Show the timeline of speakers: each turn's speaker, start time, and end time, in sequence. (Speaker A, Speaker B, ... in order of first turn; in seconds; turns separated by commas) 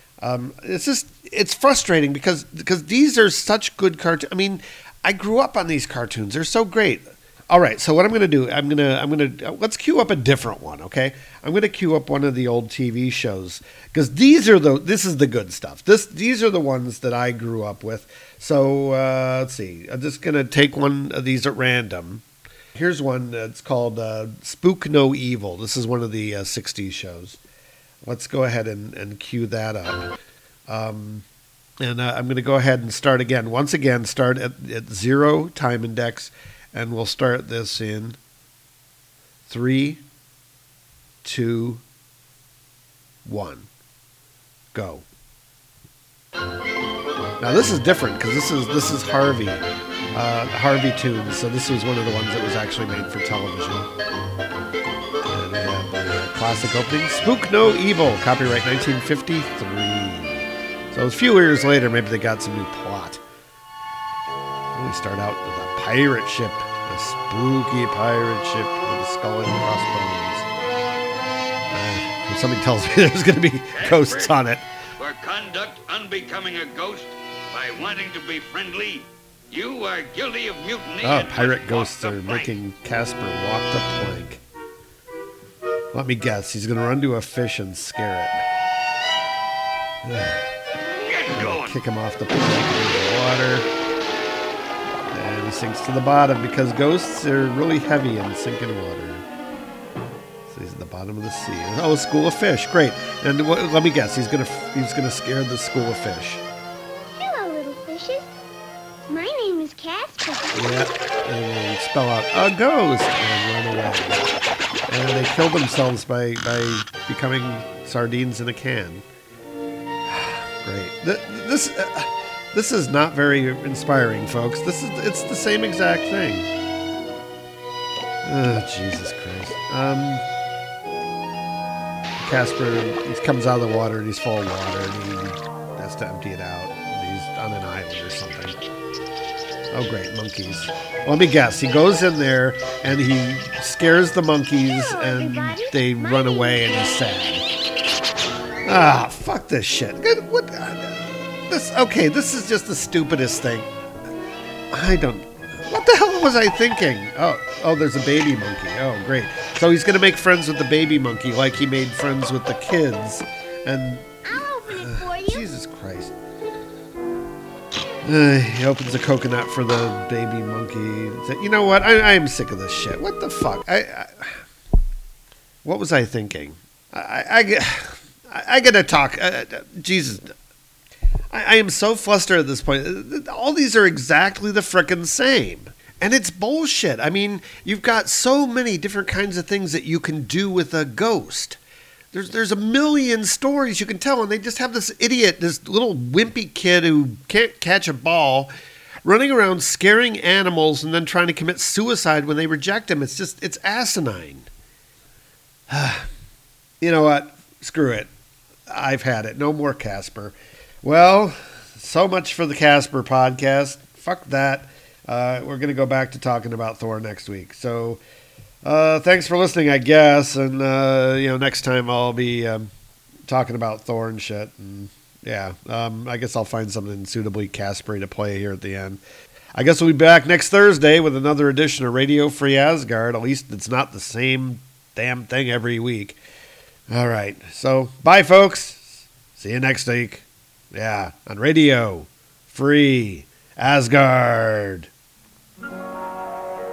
Speaker A: 0.2-22.2, Speaker A: 22.8-27.4, Speaker A: 28.0-30.1, Speaker A: 30.7-31.2, Speaker A: 31.8-38.2, Speaker A: 39.5-40.0, Speaker A: 41.2-41.8, Speaker A: 43.2-43.7, Speaker A: 44.7-45.0, Speaker A: 47.4-53.9, Speaker A: 55.3-63.2, Speaker A: 64.7-70.5, Speaker A: 71.7-74.6, Speaker B: 73.8-74.4, Speaker B: 75.0-82.6, Speaker A: 81.0-84.4, Speaker A: 85.9-88.4, Speaker A: 90.0-90.5, Speaker B: 91.0-91.8, Speaker A: 91.3-93.7, Speaker A: 95.1-99.2, Speaker A: 100.5-106.4, Speaker C: 107.1-108.3, Speaker C: 109.1-110.8, Speaker A: 110.5-114.2, Speaker A: 114.9-119.0, Speaker A: 120.1-126.5, Speaker A: 128.2-130.2, Speaker A: 132.2-138.6, Speaker A: 139.7-147.5, Speaker C: 144.7-147.0, Speaker A: 148.6-153.7, Speaker A: 154.7-166.1, Speaker C: 164.3-165.4, Speaker A: 168.0-174.4, Speaker A: 175.6-180.3, Speaker A: 181.3-191.6, Speaker A: 192.1-198.5, Speaker A: 199.1-204.5, Speaker A: 205.7-206.1, Speaker A: 206.8-208.1, Speaker A: 208.7-218.0, Speaker A: 218.6-222.7, Speaker A: 223.3-229.0, Speaker A: 229.6-236.2, Speaker A: 236.9-244.9